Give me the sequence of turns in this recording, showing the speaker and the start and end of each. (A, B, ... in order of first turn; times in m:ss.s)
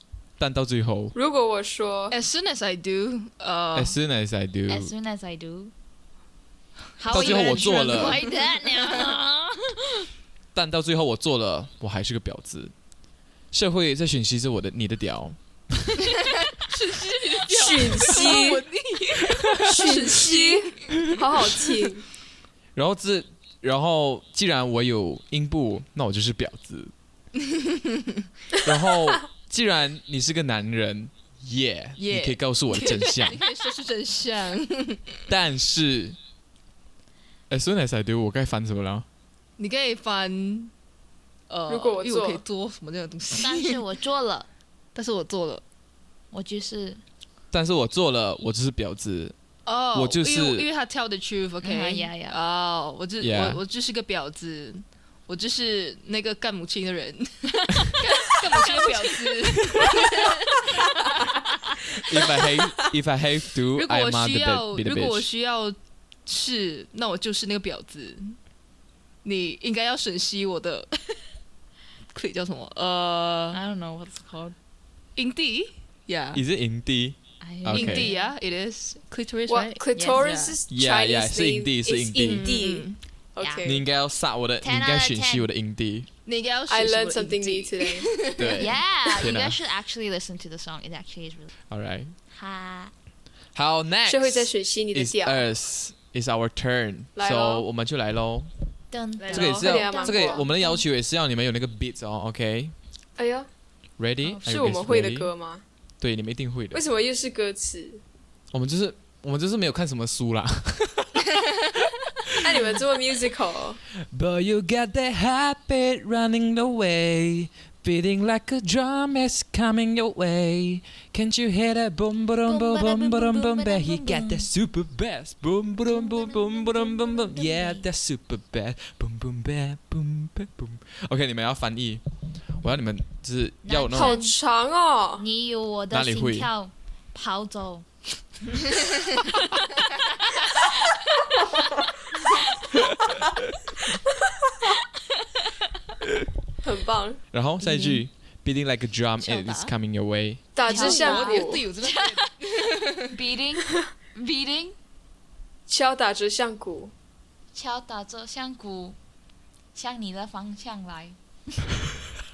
0:00.4-0:01.1 A
0:01.1-0:02.2 B
0:02.1-0:04.0 C
0:03.7-0:04.9 A
0:04.7-0:05.7 D
0:07.0-0:10.1 D
0:07.0-0:09.1 C
0:07.1-0:08.2 A
0:10.5-0:12.7 A
0:13.5-0:15.4 A
0:16.2-0:21.1 C
0:17.4-0:18.6 B
0:19.6-0:22.0 B
0:22.7-0:26.9 A
0:27.5-0:28.2 C
0:28.6-0:33.4 A
0:32.0-0:35.2 C
0:35.3-0:36.2 A
0:37.5-0:39.0 A
0:39.6-0:40.7 C
0:41.5-0:43.8 C
0:41.7-0:42.4 B
0:43.4-0:44.5 D
0:44.9-0:45.6 C
0:46.3-0:47.0 D
0:47.5-0:49.3 A
0:49.6-1:01.4 C
0:49.9-0:50.6 A
0:51.6-0:52.4 D
0:53.2-0:53.6 A
0:58.7-0:59.0 D
1:02.0-1:05.3 A
1:03.7-1:08.4 C
1:09.2-1:11.2 C
1:12.1-1:13.6 C
1:13.5-1:14.5 D
1:15.2-1:16.4 C
1:16.3-1:18.1 A
1:17.4-1:18.3 D
1:17.7-1:20.6 C
1:19.5-1:23.8 B
1:19.9-1:20.3 D
1:20.7-1:22.5 A
1:22.2-1:23.0 C
1:23.4-1:23.8 D
1:23.6-1:26.1 A
1:24.6-1:25.5 D
1:26.2-1:28.7 C
1:26.7-1:28.1 B
1:28.4-1:29.6 A
1:28.6-1:31.5 D
1:31.7-1:32.1 A
1:32.3-1:32.9 D
1:33.5-1:38.5 A
1:34.0-1:35.4 B
1:37.2-1:37.6 B
1:38.9-1:40.8 D
1:39.2-1:39.8 C
1:39.3-1:42.7 A
1:39.6-1:40.4 B
1:43.2-1:43.5 B
1:44.0-1:45.3 A
1:44.4-1:45.6 B
1:46.0-1:46.8 A
1:46.7-1:48.0 B
1:48.5-1:51.2 A
1:52.4-1:53.8 B
1:54.0-2:12.0 A
2:02.4-2:04.5 D
2:05.8-2:07.8 D
2:12.6-2:14.2 A
2:13.6-2:14.4 D
2:13.9-2:15.2 B
2:15.2-2:18.1 D
2:15.9-2:16.5 A
2:26.6-2:27.2 B
2:27.3-2:30.5 A
2:27.6-2:28.0 D
2:29.2-2:29.7 C
2:30.5-2:31.6 B
2:30.7-2:33.1 C
2:30.7-2:32.3 D
2:33.1-2:34.7 D
2:35.7-2:36.9 B
2:37.5-2:39.0 D
2:39.7-2:41.6 D